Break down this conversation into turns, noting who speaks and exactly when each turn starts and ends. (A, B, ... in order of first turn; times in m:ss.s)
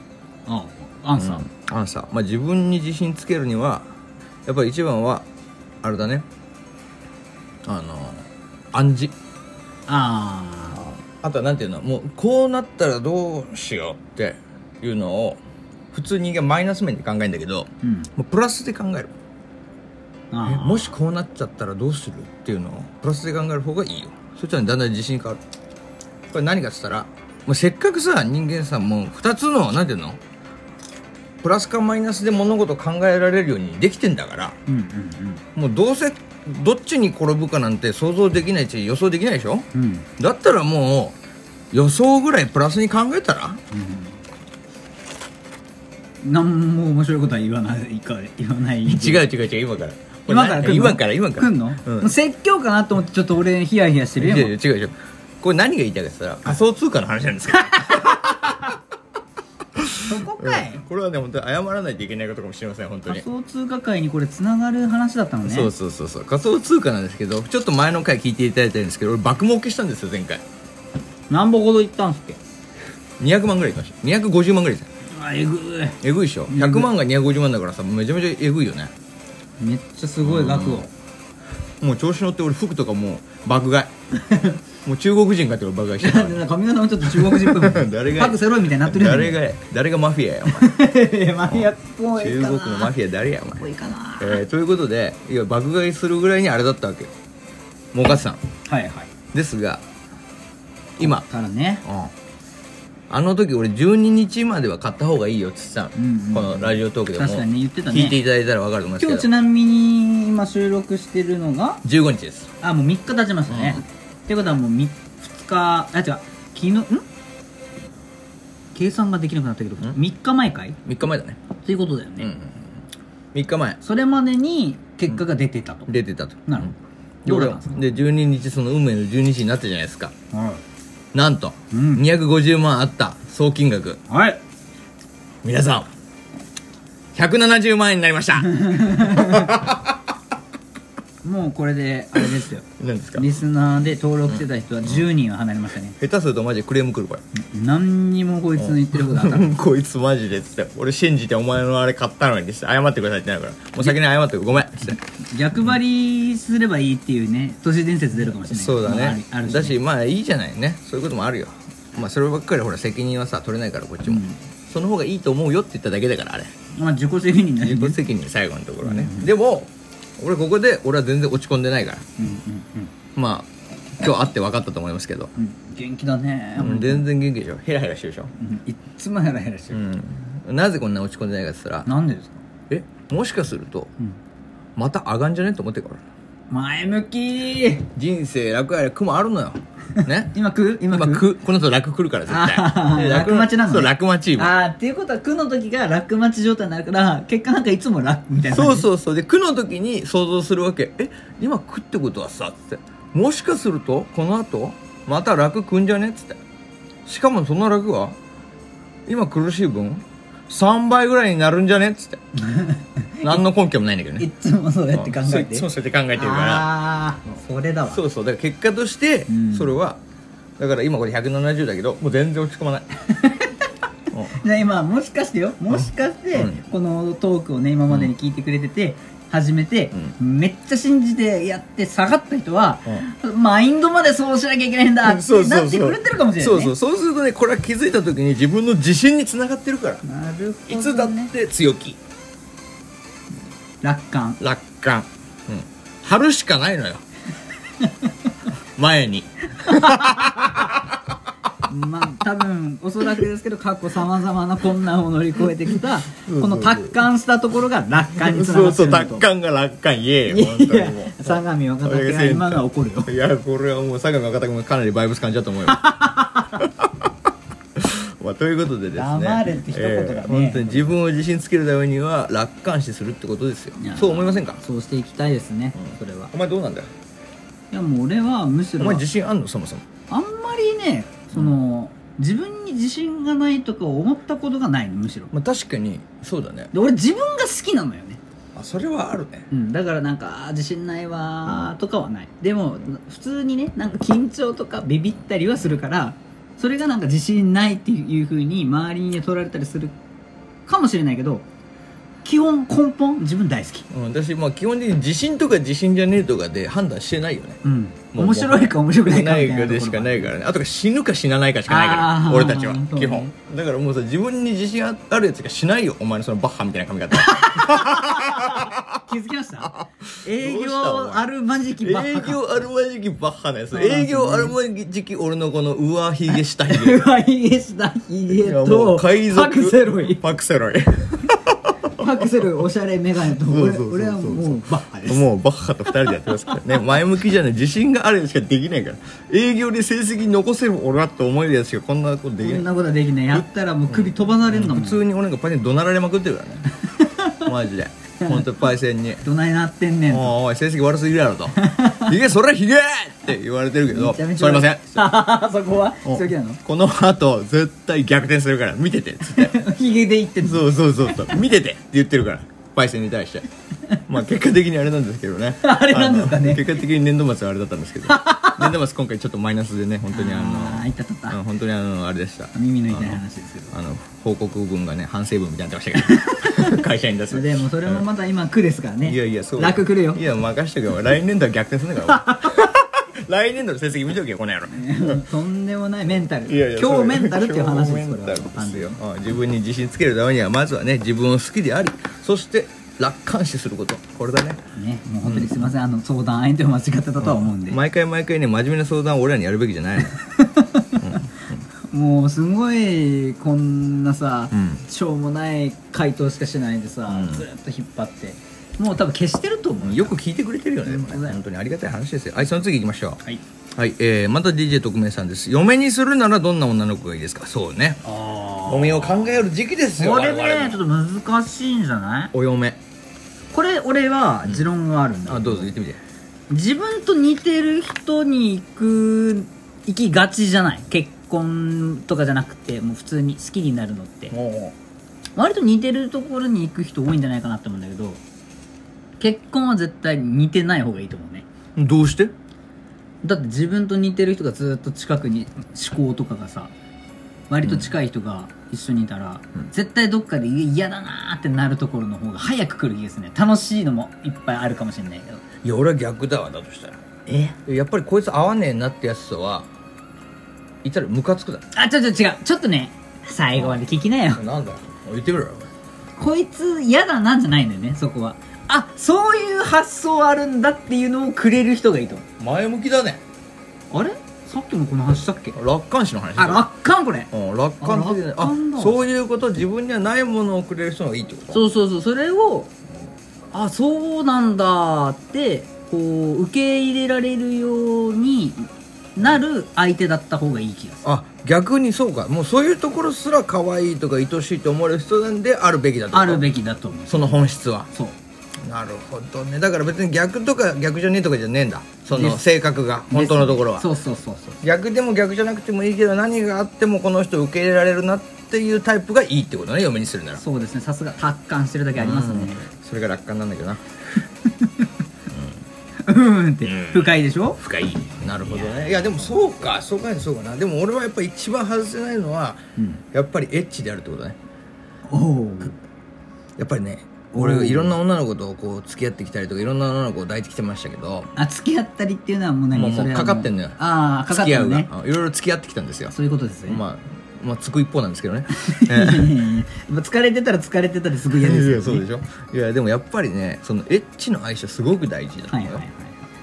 0:00.5-0:01.4 A
0:01.2-0:03.9 B
0:04.5-0:05.3 B
0:05.8-0:06.3 B
0:07.6-0:09.1 B
0:09.9-0:10.8 A
0:10.7-0:15.4 B
0:15.9-0:19.1 B
0:17.8-0:18.1 A
0:20.3-0:20.9 A
0:20.4-0:25.4 B
0:26.3-0:30.2 B
0:31.4-0:34.6 B
0:34.7-0:35.4 A
0:35.6-0:39.7 B
0:39.7-0:40.1 A
0:40.2-0:41.2 B
0:41.7-0:43.6 B
0:43.7-0:44.2 A
0:46.2-0:49.3 A
0:48.9-0:52.1 B
0:50.3-0:54.5 A
0:54.2-0:58.7 B
0:57.7-0:58.5 A
0:59.8-1:03.2 B
1:00.0-1:00.8 A
1:03.1-1:05.7 A
1:05.4-1:10.4 B
1:11.3-1:12.4 A
1:13.2-1:14.9 B
1:15.1-1:16.9 A
1:16.0-1:18.9 B
1:19.6-1:20.9 A
1:20.2-1:20.8 B
1:21.8-1:23.9 B
1:24.2-1:24.6 A
1:24.8-1:26.4 B
1:26.0-1:29.4 A
1:27.0-1:30.7 B
1:30.5-1:32.9 A
1:31.4-1:33.7 B
1:33.6-1:34.4 A
1:34.2-1:37.1 B
1:37.9-1:38.4 B
1:38.7-1:39.1 A
1:39.3-1:39.8 B
1:41.0-1:41.2 B
1:41.0-1:41.8 A
1:41.8-1:42.1 B
1:43.1-1:49.3 B
1:46.0-1:48.2 A
1:49.0-1:51.8 A
1:51.8-1:52.5 B
1:52.6-1:57.0 A
1:53.5-1:53.8 B
1:58.8-2:00.8 A
2:00.8-2:01.4 B
2:01.6-2:02.3 A
2:02.2-2:02.6 B
2:03.3-2:03.8 B
2:03.8-2:05.9 A
2:05.9-2:06.7 B
2:06.5-2:06.7 A
2:07.2-2:07.8 A
2:07.2-2:10.1 B
2:10.3-2:10.6 A
2:11.1-2:14.0 B
2:11.7-2:12.0 A
2:14.1-2:14.4 A
2:15.4-2:15.9 B
2:17.2-2:19.9 B
2:18.5-2:19.6 A
2:21.2-2:22.6 A
2:22.8-2:23.3 B
2:23.2-2:25.9 A
2:24.3-2:25.0 B
2:26.0-2:27.2 B
2:27.4-2:29.5 A
2:28.6-2:35.0 B
2:34.9-2:39.8 A
2:38.2-2:46.5 B
2:44.1-2:44.4 A
2:46.8-2:48.0 A
2:47.6-2:52.0 B
2:48.8-2:49.3 A
2:52.2-2:52.9 A
2:53.2-2:55.3 B
2:55.4-2:57.0 A
2:56.6-2:58.3 B
2:58.4-2:59.8 A
2:59.7-3:01.9 B
3:01.9-3:02.4 A
3:02.7-3:03.9 B
3:04.8-3:06.0 B
3:06.5-3:07.9 A
3:07.9-3:10.4 B
3:10.3-3:11.2 A
3:10.9-3:14.5 B
3:12.3-3:18.9 A
3:18.5-3:26.4 B
3:27.1-3:28.2 B
3:29.1-3:32.2 B
3:32.4-3:33.4 A
3:33.2-3:34.3 B
3:34.2-3:38.0 A
3:34.9-3:36.7 B
3:37.9-3:40.0 B
3:39.3-3:39.8 A
3:40.6-3:42.9 B
3:43.1-3:43.6 A
3:44.1-3:56.7 A
3:45.7-3:46.6 B
3:55.0-4:00.0 B
4:00.0-4:01.3 A
4:00.7-4:02.0 B
4:03.8-4:04.4 A
4:04.4-4:07.0 B
4:08.8-4:11.0 B
4:09.6-4:10.4 A
4:11.6-4:19.2 A
4:16.2-4:17.0 B
4:18.2-4:26.0 B
4:20.3-4:23.1 A
4:25.7-4:26.7 A
4:26.6-4:26.9 B
4:27.8-4:34.6 B
4:28.9-4:31.0 A
4:33.8-4:36.3 A
4:35.8-4:36.9 B
4:37.7-4:39.0 A
4:38.8-4:39.8 B
4:40.1-4:45.3 A
4:45.3-4:46.7 B
4:46.7-4:48.2 A
4:48.6-4:49.5 B
4:49.5-4:59.9 A
5:00.7-5:01.4 A
5:02.2-5:03.9 A
5:03.9-5:07.6 B
5:07.6-5:10.3 A
5:08.1-5:19.0 B
5:11.7-5:13.3 A
5:17.2-5:22.4 A
5:19.6-5:21.3 B
5:21.8-5:27.0 B
5:23.7-5:24.6 A
5:26.3-5:30.2 A
5:28.3-5:32.0 B
5:31.9-5:35.3 A
5:33.4-5:42.7 B
5:35.9-5:36.8 A
5:42.4-5:45.0 A
5:43.3-5:46.7 B
5:47.0-5:47.4 A
5:47.4-5:49.2 B
5:48.2-5:48.5 A
5:49.2-5:50.3 A
5:50.1-5:55.1 B
5:51.6-5:52.1 A
5:53.9-5:56.6 A
5:56.0-5:59.5 B
5:59.3-6:00.7 A
6:00.4-6:03.5 B
6:04.1-6:18.0 B
6:05.6-6:06.8 A
6:08.1-6:08.8 A
6:10.1-6:11.4 A
6:12.5-6:13.7 A
6:16.1-6:20.2 A
6:19.0-6:25.3 B
6:22.1-6:22.7 A
6:24.7-6:29.0 A
6:26.4-6:34.6 B
6:34.7-6:37.8 A
6:35.2-6:35.7 B
6:37.2-6:40.2 B
6:40.2-6:41.2 A
6:41.0-6:41.3 B
6:41.9-6:50.1 A
6:44.5-6:44.8 B
6:47.1-6:47.5 B
6:49.8-6:53.2 B
6:50.8-6:51.4 A
6:53.8-6:58.0 B
6:58.0-6:59.4 A
6:58.6-7:00.8 B
7:00.0-7:02.3 A
7:02.3-7:02.8 B
7:03.5-7:05.7 A
7:05.3-7:06.0 B
7:06.5-7:14.3 A
7:14.3-7:14.8 B
7:15.4-7:18.2 A
7:19.2-7:21.5 A
7:21.8-7:22.3 B
7:23.2-7:26.7 A
7:27.5-7:35.4 A
7:27.6-7:28.0 B
7:35.6-7:37.0 B
7:37.2-7:37.6 A
7:37.6-7:39.7 B
7:40.8-7:41.6 B
7:41.7-7:44.4 A
7:43.5-7:45.7 B
7:46.2-7:52.2 A
7:52.4-7:53.2 B
7:53.9-7:55.6 A
7:55.5-7:56.7 B
7:56.4-7:59.1 A
7:57.3-8:01.7 B
8:01.5-8:02.7 A
8:03.5-8:11.0 A
8:11.0-8:16.5 B
8:16.1-8:18.2 A
8:17.1-8:17.9 B
8:18.6-8:23.9 B
8:22.1-8:22.4 A
8:23.1-8:24.6 A
8:24.6-8:30.4 B
8:30.4-8:32.6 A
8:32.0-8:33.8 B
8:35.3-8:35.6 B
8:36.1-8:37.6 A
8:36.6-8:44.4 B
8:45.1-8:45.8 A
8:46.6-8:51.3 B
8:47.3-8:48.0 A
8:51.4-8:54.9 A
8:52.7-8:53.8 B
8:54.3-8:56.1 B
8:56.1-8:56.8 A
8:56.7-8:59.4 B
8:58.5-9:02.0 A
9:01.3-9:05.8 B
9:05.5-9:06.2 A